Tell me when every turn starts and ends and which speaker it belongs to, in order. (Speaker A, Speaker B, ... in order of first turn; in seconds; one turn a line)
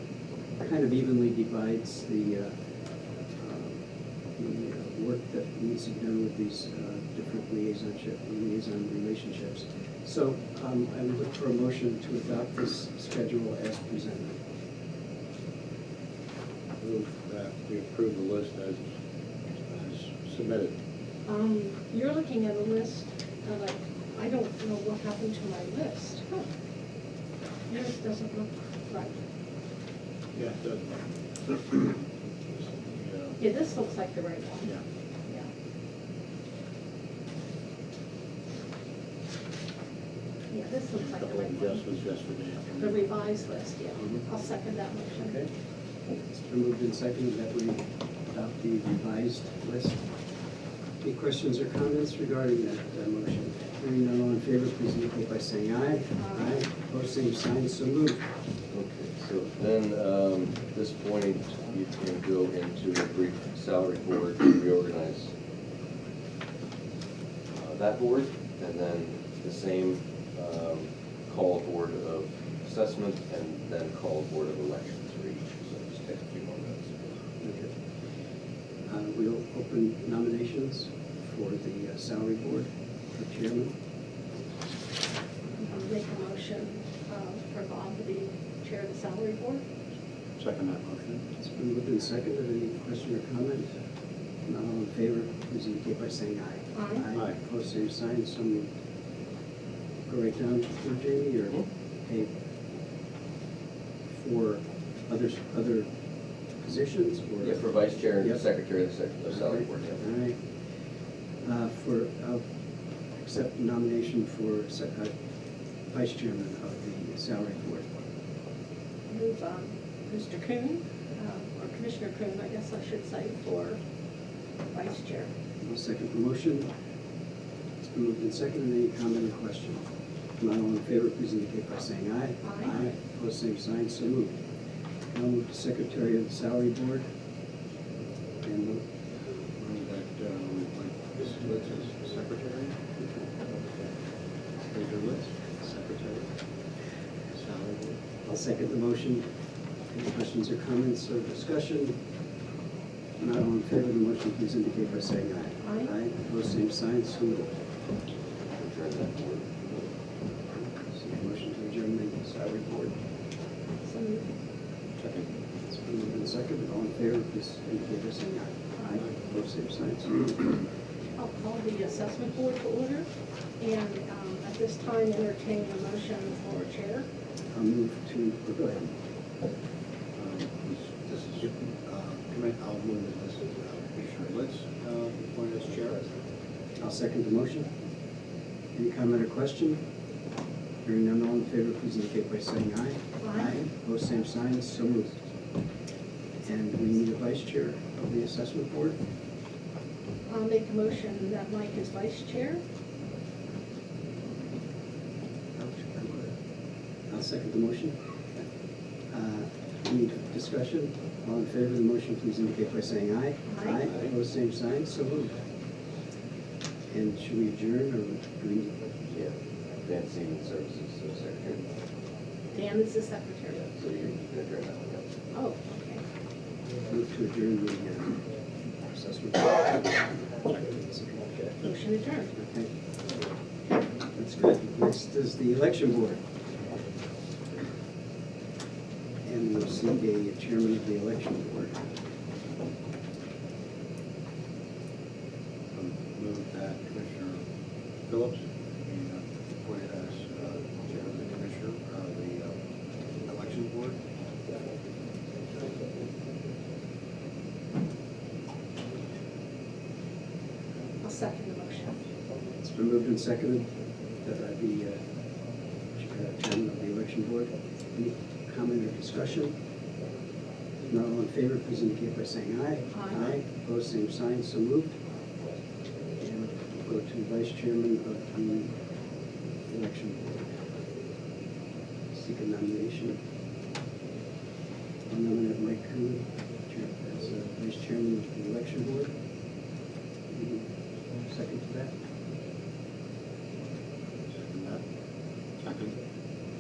Speaker A: 0.6-2.5
Speaker A: 3.4-3.8
Speaker A: 4.4-14.4
Speaker B: 16.8-18.9
Speaker B: 19.7-20.7
Speaker C: 21.3-26.5
Speaker C: 27.7-29.1
Speaker B: 30.4-33.4
Speaker C: 33.4-34.7
Speaker C: 40.5-41.8
Speaker B: 40.9-43.0
Speaker C: 42.8-45.4
Speaker A: 46.3-50.0
Speaker A: 51.0-58.2
Speaker C: 56.2-56.6
Speaker D: 58.7-65.3
Speaker D: 67.5-77.1
Speaker A: 77.4-77.7
Speaker A: 78.9-83.8
Speaker C: 85.6-89.6
Speaker B: 90.4-91.3
Speaker A: 91.4-93.7
Speaker A: 94.5-98.7
Speaker C: 96.8-97.1
Speaker A: 100.1-102.3
Speaker A: 104.1-105.9
Speaker A: 106.6-107.7
Speaker D: 107.4-110.0
Speaker A: 109.3-110.5
Speaker A: 111.4-112.5
Speaker A: 113.2-115.1
Speaker A: 115.9-118.0
Speaker C: 119.1-123.8
Speaker C: 124.7-125.3
Speaker A: 125.6-126.7
Speaker A: 127.9-129.9
Speaker A: 130.4-134.4
Speaker C: 132.4-132.8
Speaker A: 135.1-137.1
Speaker A: 138.4-138.8
Speaker B: 139.6-142.8
Speaker B: 144.7-146.3
Speaker B: 147.3-148.0
Speaker A: 148.2-149.3
Speaker A: 149.9-152.0
Speaker A: 153.2-157.5
Speaker C: 155.6-155.9
Speaker D: 158.6-159.9
Speaker A: 160.6-163.0
Speaker C: 163.8-164.3
Speaker B: 165.0-165.3
Speaker A: 165.7-170.6
Speaker C: 171.2-173.1
Speaker C: 173.6-177.1
Speaker A: 177.5-178.9
Speaker B: 180.2-186.1
Speaker A: 186.8-187.7
Speaker A: 188.8-189.8
Speaker A: 190.8-195.2
Speaker C: 193.2-193.6
Speaker A: 196.4-199.0
Speaker C: 200.3-202.6
Speaker A: 205.6-206.4
Speaker A: 207.1-208.4
Speaker A: 209.1-215.4
Speaker C: 213.5-213.9
Speaker A: 216.9-218.8
Speaker D: 219.1-221.7
Speaker C: 222.5-223.6
Speaker D: 223.5-225.2
Speaker C: 225.3-226.0
Speaker A: 226.9-228.2
Speaker A: 228.8-231.6
Speaker C: 231.6-232.3
Speaker A: 232.3-232.7
Speaker A: 234.1-236.2
Speaker A: 239.2-241.9
Speaker B: 245.7-247.4
Speaker B: 248.1-252.6
Speaker B: 253.2-254.0
Speaker C: 261.0-262.0
Speaker A: 262.6-265.0
Speaker A: 266.0-269.6
Speaker A: 270.9-275.0
Speaker C: 272.9-273.3
Speaker A: 276.2-278.8
Speaker A: 279.7-280.6
Speaker A: 282.1-283.2
Speaker A: 285.1-289.1
Speaker A: 290.3-292.0
Speaker B: 294.3-294.8
Speaker B: 295.6-296.0